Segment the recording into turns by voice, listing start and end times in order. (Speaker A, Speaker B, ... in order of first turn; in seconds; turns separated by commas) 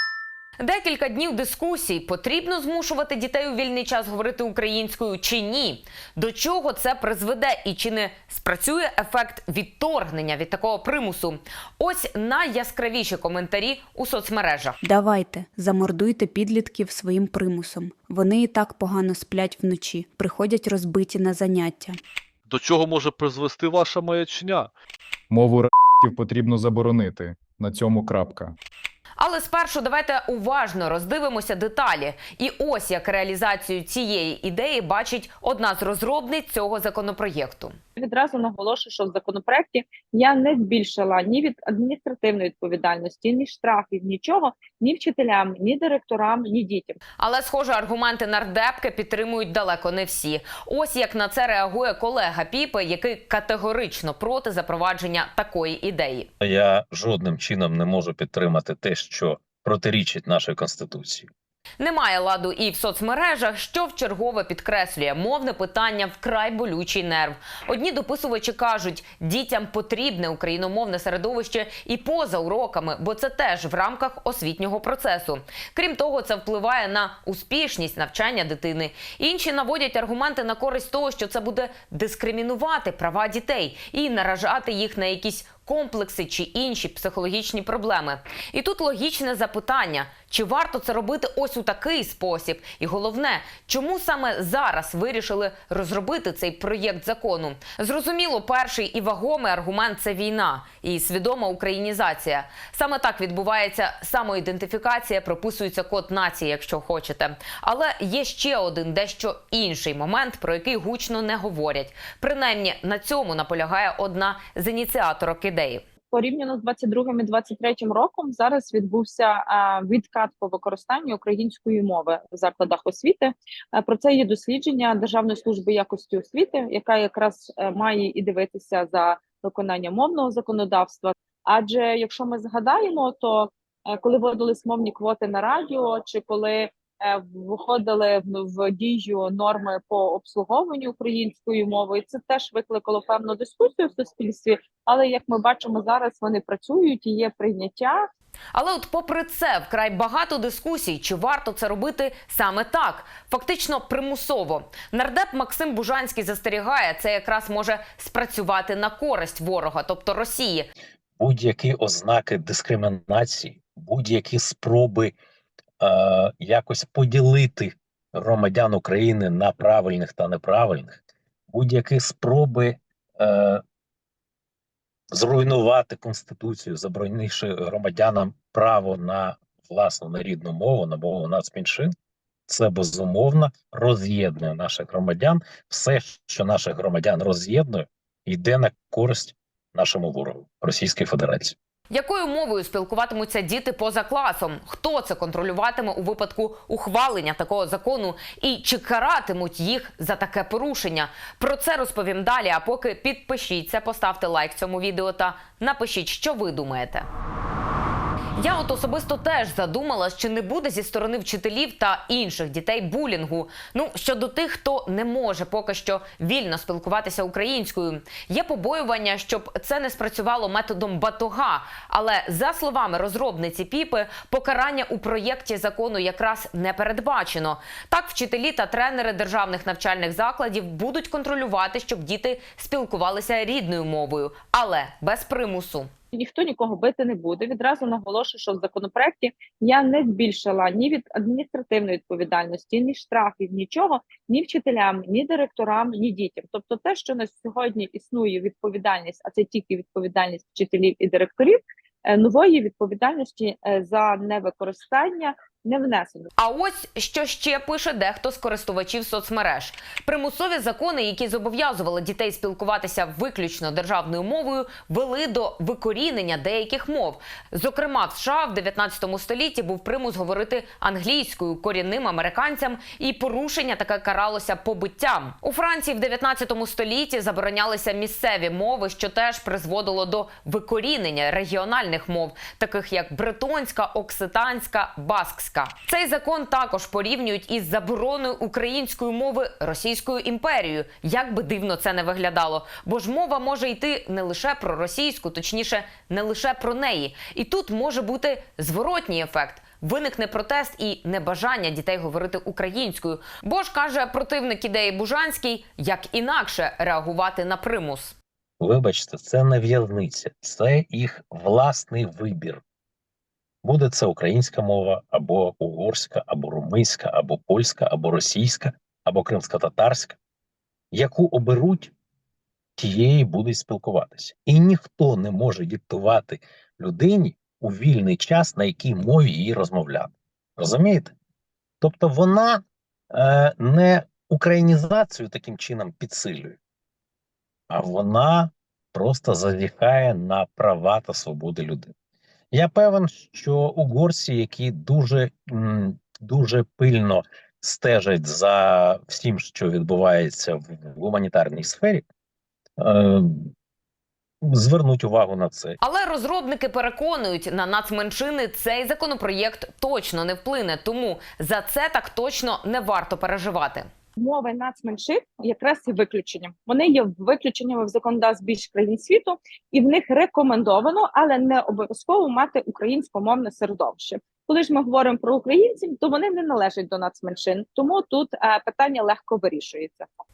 Speaker A: 0.6-14.8, Speaker B: 14.8-22.0, Speaker C: 22.5-24.7, Speaker D: 25.3-28.6, Speaker A: 29.2-37.8, Speaker E: 38.0-47.0, Speaker A: 47.2-56.3, Speaker F: 56.4-61.3, Speaker A: 61.8-115.8, Speaker E: 116.1-148.0, Speaker A: 148.5-160.7, Speaker F: 161.2-165.2, Speaker F: 165.8-171.0, Speaker F: 171.5-173.6, Speaker F: 175.1-181.9, Speaker F: 182.5-191.6, Speaker A: 191.9-207.1, Speaker A: 208.4-235.9, Speaker E: 236.1-256.3, Speaker A: 256.4-308.2, Speaker F: 308.6-312.6, Speaker F: 313.6-320.2, Speaker F: 320.9-321.9, Speaker F: 322.8-331.1, Speaker F: 331.8-336.6, Speaker F: 337.7-341.9, Speaker F: 342.5-352.0, Speaker F: 352.8-353.5, Speaker F: 354.4-355.8, Speaker A: 355.8-363.9, Speaker E: 364.2-380.1